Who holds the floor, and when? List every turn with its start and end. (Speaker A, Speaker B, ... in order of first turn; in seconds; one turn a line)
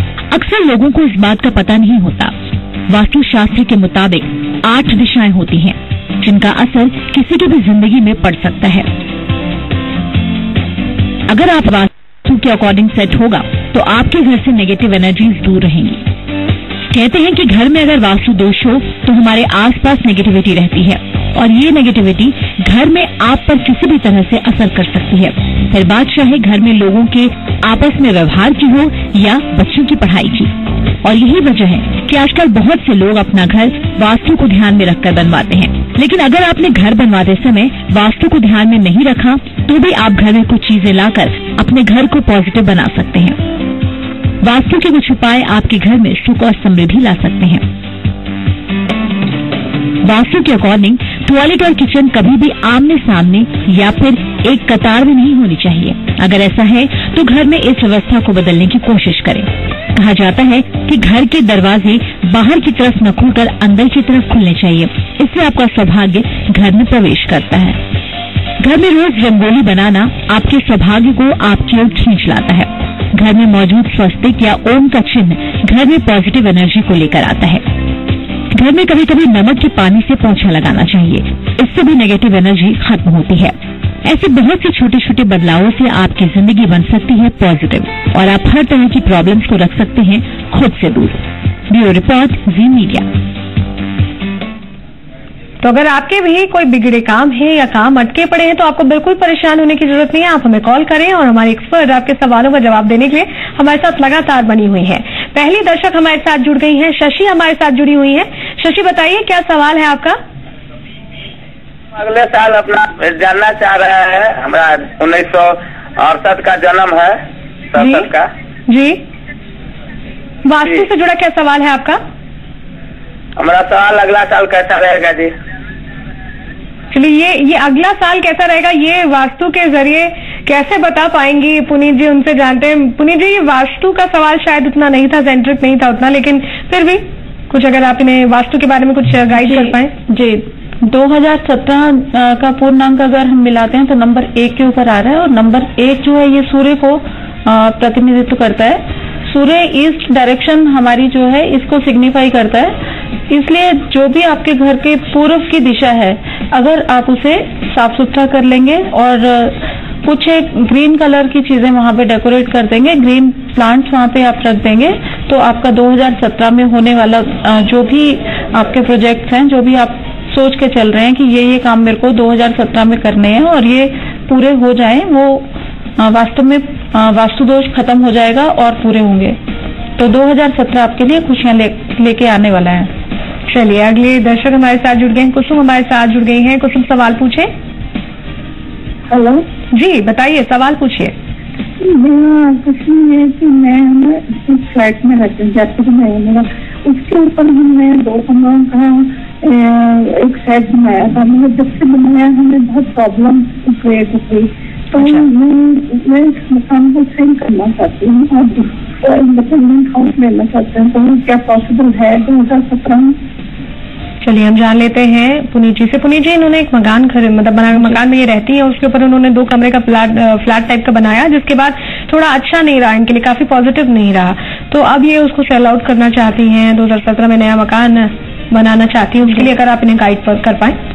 Speaker A: 0.3-2.3
Speaker A: 2.9-8.9
Speaker A: 11.3-16.0
Speaker A: 16.9-30.5
Speaker A: 31.0-43.4
Speaker A: 44.4-47.6
Speaker A: 50.0-67.8
Speaker A: 68.6-77.7
Speaker A: 78.5-93.1
Speaker B: 95.6-110.2
Speaker C: 112.0-117.2
Speaker C: 117.7-118.3
Speaker B: 117.8-118.1
Speaker B: 118.7-119.0
Speaker B: 120.5-122.0
Speaker C: 123.4-125.3
Speaker B: 126.9-139.9
Speaker D: 139.4-152.8
Speaker D: 153.3-179.4
Speaker D: 180.0-182.9
Speaker B: 183.5-187.5
Speaker E: 189.1-189.4
Speaker B: 189.7-191.1
Speaker E: 191.8-213.2
Speaker B: 214.2-230.8